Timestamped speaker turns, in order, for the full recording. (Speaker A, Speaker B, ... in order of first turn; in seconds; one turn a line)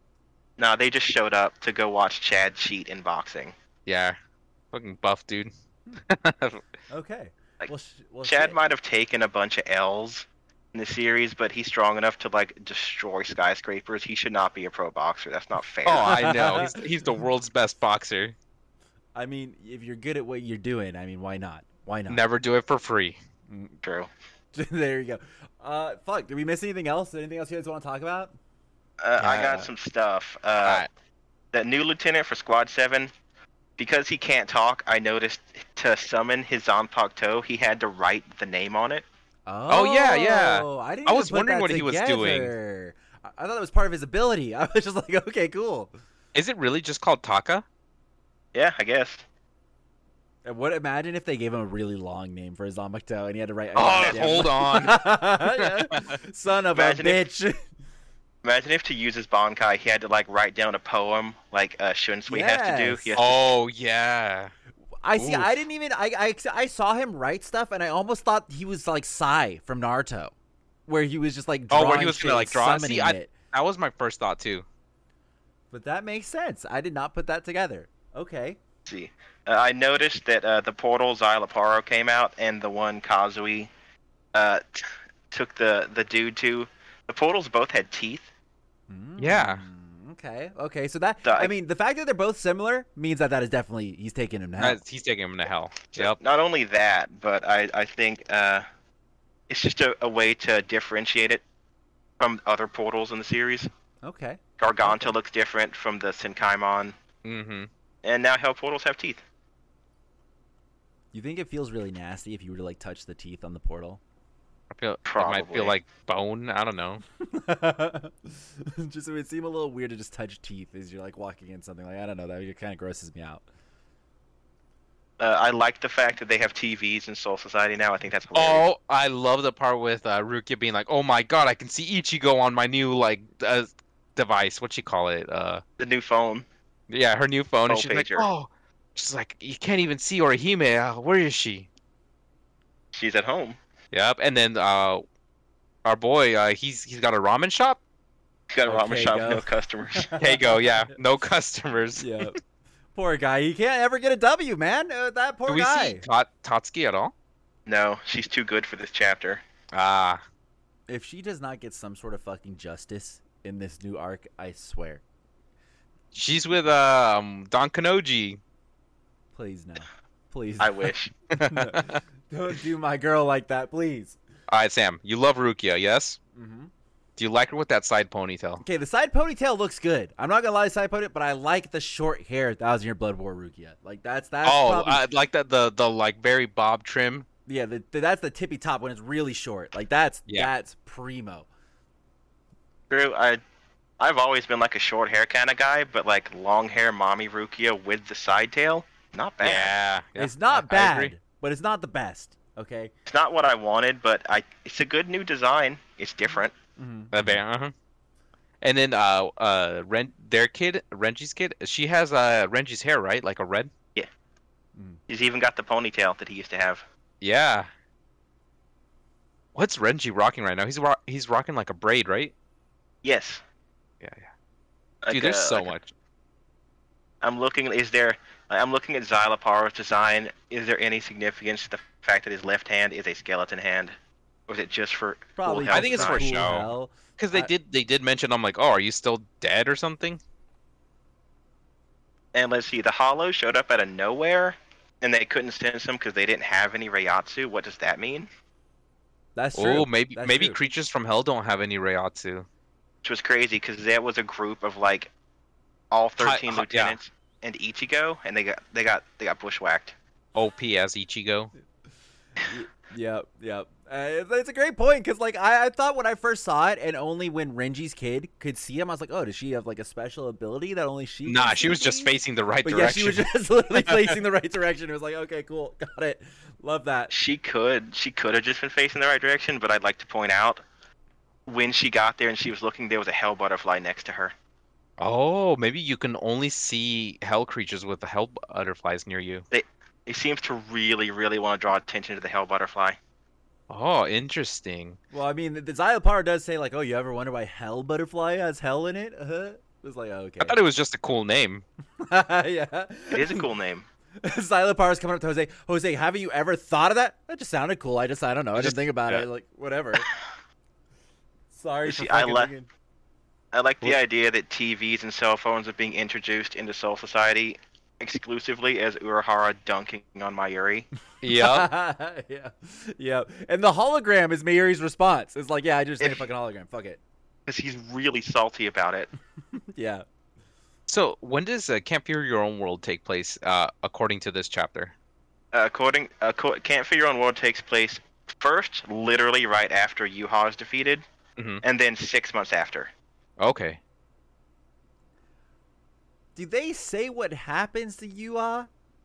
Speaker A: 0.6-3.5
Speaker B: 3.9-4.2
Speaker B: 4.7-5.5
Speaker B: 6.1-6.6
Speaker C: 6.9-8.6
Speaker A: 8.2-16.6
Speaker B: 15.8-18.4
Speaker C: 16.0-16.8
Speaker C: 19.1-22.2
Speaker B: 22.1-23.2
Speaker C: 23.5-23.8
Speaker A: 23.8-24.1
Speaker C: 24.5-28.4
Speaker A: 29.0-30.9
Speaker B: 29.2-29.7
Speaker A: 31.5-33.1
Speaker A: 33.8-39.0
Speaker C: 39.5-45.9
Speaker B: 39.7-42.5
Speaker B: 46.3-47.7
Speaker A: 48.5-49.2
Speaker C: 50.5-57.6
Speaker B: 53.8-56.2
Speaker A: 54.0-54.4
Speaker A: 56.8-57.2
Speaker A: 58.4-63.5
Speaker C: 62.3-63.1
Speaker B: 63.1-64.5
Speaker C: 65.0-70.3
Speaker B: 65.2-65.5
Speaker C: 70.9-73.3
Speaker B: 71.7-74.7
Speaker C: 75.7-78.6
Speaker A: 78.9-83.7
Speaker A: 84.3-88.3
Speaker C: 88.9-94.8
Speaker B: 89.2-89.6
Speaker A: 91.2-91.5
Speaker B: 94.6-96.2
Speaker A: 95.9-98.7
Speaker A: 99.5-101.4
Speaker A: 102.2-103.7
Speaker C: 104.0-105.1
Speaker A: 104.6-106.9
Speaker B: 107.2-107.7
Speaker A: 108.0-109.2
Speaker C: 111.1-114.0
Speaker B: 114.7-117.0
Speaker A: 115.0-115.8
Speaker C: 117.2-123.4
Speaker A: 125.2-128.7
Speaker B: 128.3-135.6
Speaker A: 135.8-136.4
Speaker B: 136.9-141.7
Speaker A: 137.7-138.3
Speaker A: 142.9-143.6
Speaker B: 143.9-145.0
Speaker B: 145.8-147.8
Speaker A: 148.5-150.1
Speaker C: 148.7-151.0
Speaker B: 150.2-152.3
Speaker C: 152.0-152.4
Speaker C: 152.9-156.1
Speaker B: 155.5-157.1
Speaker A: 157.7-159.4
Speaker B: 159.7-160.2
Speaker C: 160.9-165.0
Speaker B: 166.1-168.4
Speaker C: 169.3-174.2
Speaker A: 170.6-171.1
Speaker B: 171.3-172.0
Speaker B: 174.5-176.2
Speaker C: 176.3-176.7
Speaker B: 177.2-178.6
Speaker C: 178.6-185.0
Speaker B: 184.4-187.3
Speaker C: 187.5-191.5
Speaker A: 192.9-193.4
Speaker A: 194.0-199.8
Speaker B: 199.4-201.1
Speaker C: 200.2-202.9
Speaker A: 203.1-206.5
Speaker C: 206.8-207.4
Speaker B: 207.1-207.7
Speaker B: 208.6-213.7
Speaker A: 215.1-216.8
Speaker B: 217.2-217.7
Speaker B: 219.6-222.3
Speaker A: 223.0-223.4
Speaker B: 224.0-224.3
Speaker A: 225.0-225.7
Speaker B: 225.1-225.9
Speaker A: 227.2-233.9
Speaker A: 234.5-236.5
Speaker C: 235.4-237.5
Speaker B: 235.7-240.2
Speaker A: 242.3-248.3
Speaker C: 249.4-250.6
Speaker B: 249.6-252.5
Speaker A: 253.0-255.1
Speaker A: 255.9-259.9
Speaker B: 256.2-257.0
Speaker B: 260.4-261.5
Speaker C: 262.4-277.1
Speaker B: 271.3-274.2
Speaker A: 277.1-280.6
Speaker A: 281.5-284.3
Speaker B: 285.0-289.4
Speaker A: 289.5-293.0
Speaker B: 293.7-295.0
Speaker C: 295.1-300.6
Speaker B: 300.4-301.6
Speaker C: 302.0-303.5
Speaker A: 303.1-303.9
Speaker C: 304.2-310.1
Speaker B: 308.6-309.2
Speaker C: 311.5-312.7
Speaker A: 311.9-312.5
Speaker A: 313.5-320.9
Speaker B: 321.2-321.7
Speaker C: 321.3-327.0
Speaker A: 326.0-326.3
Speaker A: 327.5-329.1
Speaker C: 329.5-330.1
Speaker B: 330.9-334.9
Speaker A: 335.5-341.0
Speaker B: 341.4-341.6
Speaker A: 341.6-342.9
Speaker B: 343.4-343.8
Speaker C: 346.4-348.7